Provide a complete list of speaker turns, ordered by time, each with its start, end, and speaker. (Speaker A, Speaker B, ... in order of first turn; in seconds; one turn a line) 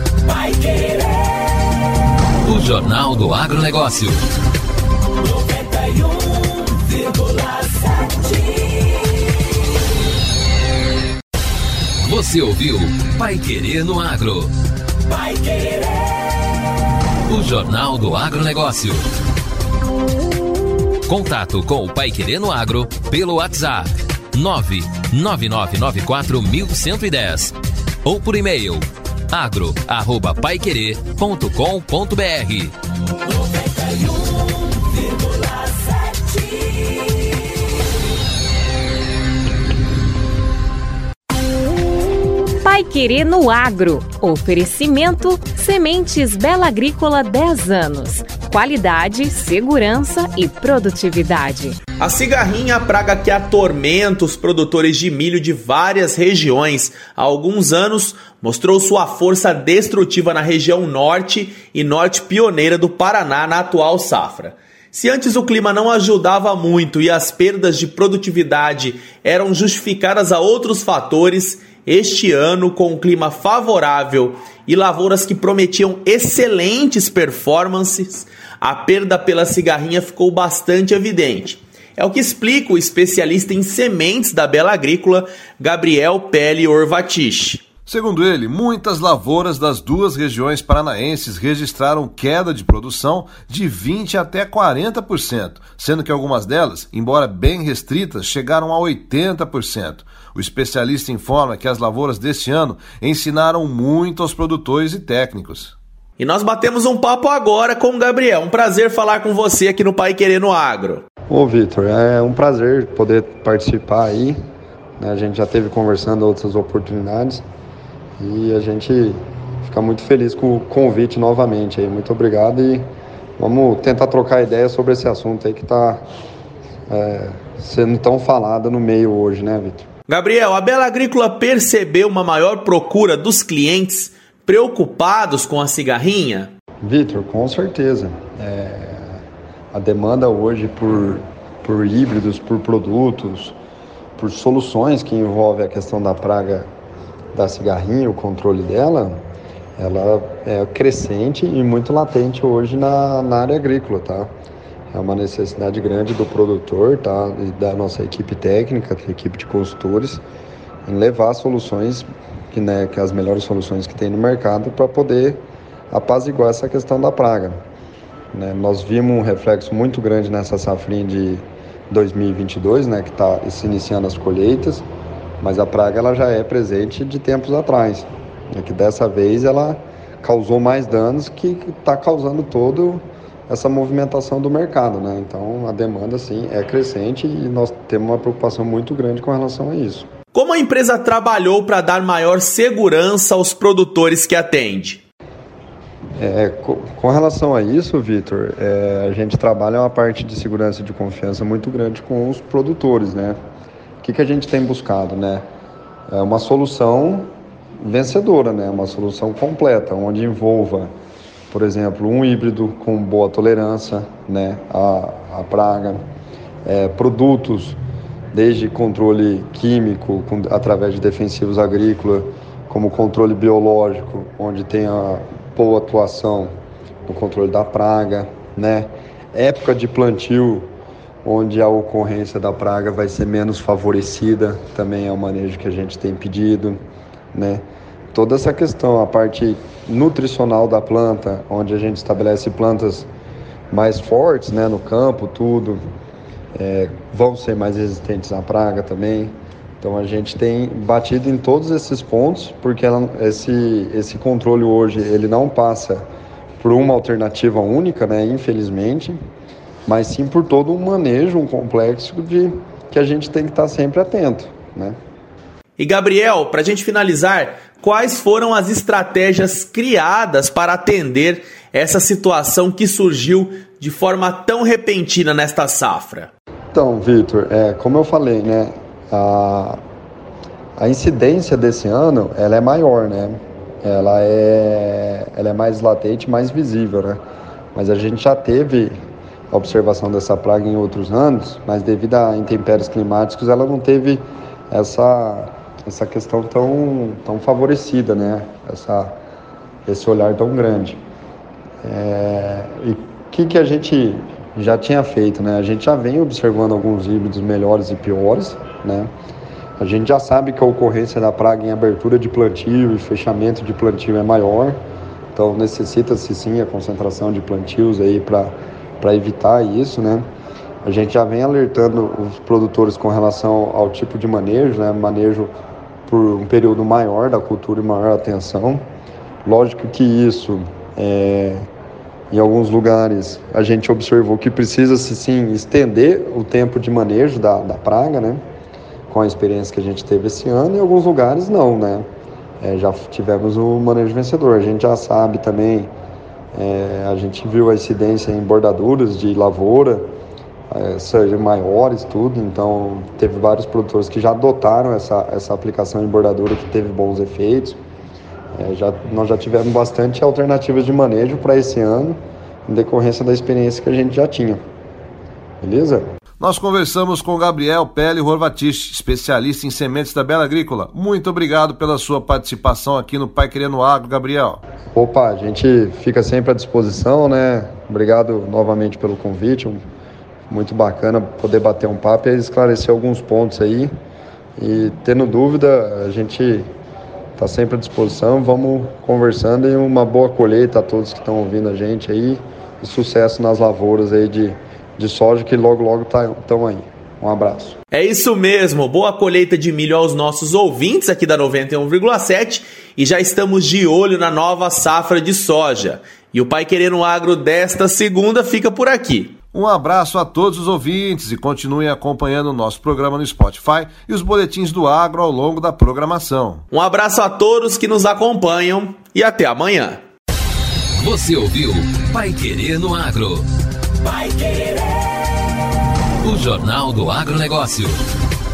Speaker A: 2.4-4.2
Speaker A: 12.0-14.5
Speaker A: 17.3-19.0
Speaker A: 21.1-32.7
Speaker B: 42.6-51.8
Speaker C: 52.0-87.6
Speaker D: 87.9-105.8
Speaker C: 106.2-111.0
Speaker E: 111.3-114.4
Speaker E: 115.0-117.4
Speaker E: 118.2-122.8
Speaker E: 123.4-126.0
Speaker E: 126.9-129.9
Speaker C: 130.1-136.5
Speaker E: 136.8-139.2
Speaker E: 139.7-143.6
Speaker E: 144.2-146.7
Speaker E: 147.3-149.2
Speaker E: 149.8-154.3
Speaker E: 154.9-160.2
Speaker E: 160.9-167.6
Speaker E: 168.3-174.9
Speaker E: 175.4-190.1
Speaker C: 190.3-195.0
Speaker E: 196.2-203.4
Speaker E: 204.0-205.4
Speaker E: 206.1-210.9
Speaker E: 211.5-216.0
Speaker E: 216.7-217.8
Speaker E: 218.3-226.5
Speaker E: 227.1-230.7
Speaker E: 231.2-236.8
Speaker E: 237.3-243.1
Speaker E: 243.7-245.8
Speaker E: 246.6-256.0
Speaker E: 256.6-259.2
Speaker E: 259.9-265.0
Speaker C: 265.8-276.3
Speaker E: 276.7-279.8
Speaker E: 280.8-287.2
Speaker E: 287.7-288.9
Speaker E: 289.5-299.2
Speaker E: 299.9-301.0
Speaker E: 301.8-309.1
Speaker E: 309.8-314.8
Speaker E: 315.3-320.2
Speaker E: 320.8-325.5
Speaker E: 326.1-328.9
Speaker E: 329.4-331.7
Speaker E: 332.3-338.4
Speaker E: 339.1-342.1
Speaker E: 342.6-345.9
Speaker E: 346.5-350.1
Speaker E: 350.7-357.8
Speaker E: 358.6-364.6
Speaker E: 365.6-366.1
Speaker D: 366.4-374.6
Speaker E: 374.9-379.8
Speaker E: 380.5-383.9
Speaker E: 384.6-386.7
Speaker E: 387.4-397.8
Speaker C: 397.9-409.3
Speaker D: 409.5-416.6
Speaker C: 416.7-420.0
Speaker A: 421.0-423.4
Speaker A: 426.2-428.0